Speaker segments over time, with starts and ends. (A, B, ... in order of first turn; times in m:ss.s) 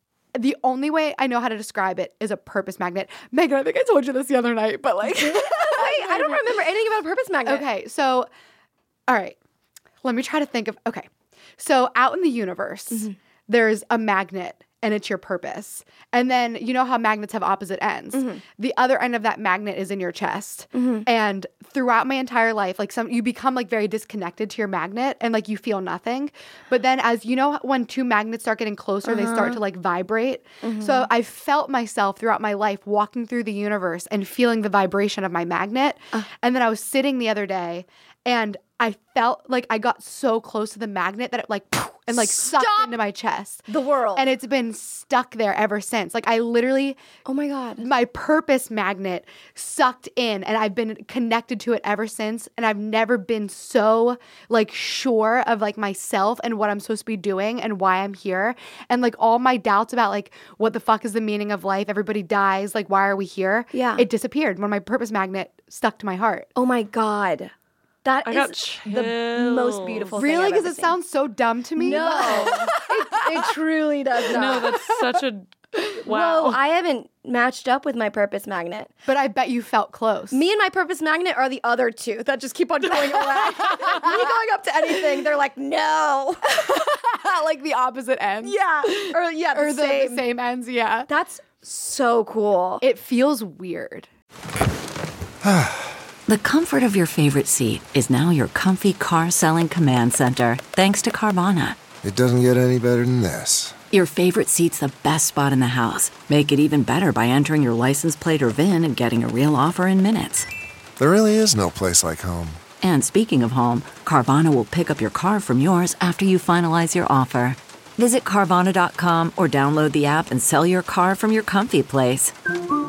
0:00.3-0:06.6 A
0:05.2-0:07.6 B
0:07.4-0:08.3 A
0:09.1-0:09.4 A
0:10.0-0:11.1 A
0:11.6-0:47.0 A
0:18.1-0:18.4 B
0:20.7-0:21.1 B
0:29.0-0:29.6 B
0:30.6-0:31.0 B
0:42.1-0:42.9 B
0:43.7-0:44.3 B
0:47.2-0:47.9 B
0:47.8-1:06.5 A
1:03.7-1:04.1 B
1:06.6-1:07.5 B
1:08.0-1:11.0 B
1:08.2-1:10.2 C
1:10.2-1:13.5 A
1:11.8-1:14.7 B
1:14.3-1:15.0 A
1:14.3-1:16.6 C
1:16.0-1:18.9 B
1:19.0-1:20.4 A
1:20.3-1:26.7 B
1:23.4-1:24.3 A
1:26.5-1:31.1 A
1:28.4-1:30.2 B
1:31.1-1:32.8 B
1:32.8-1:34.1 A
1:35.4-1:36.0 D
1:36.3-1:41.8 E
1:42.0-1:43.8 D
1:43.9-1:50.5 E
1:51.0-1:52.6 D
1:52.8-2:02.3 E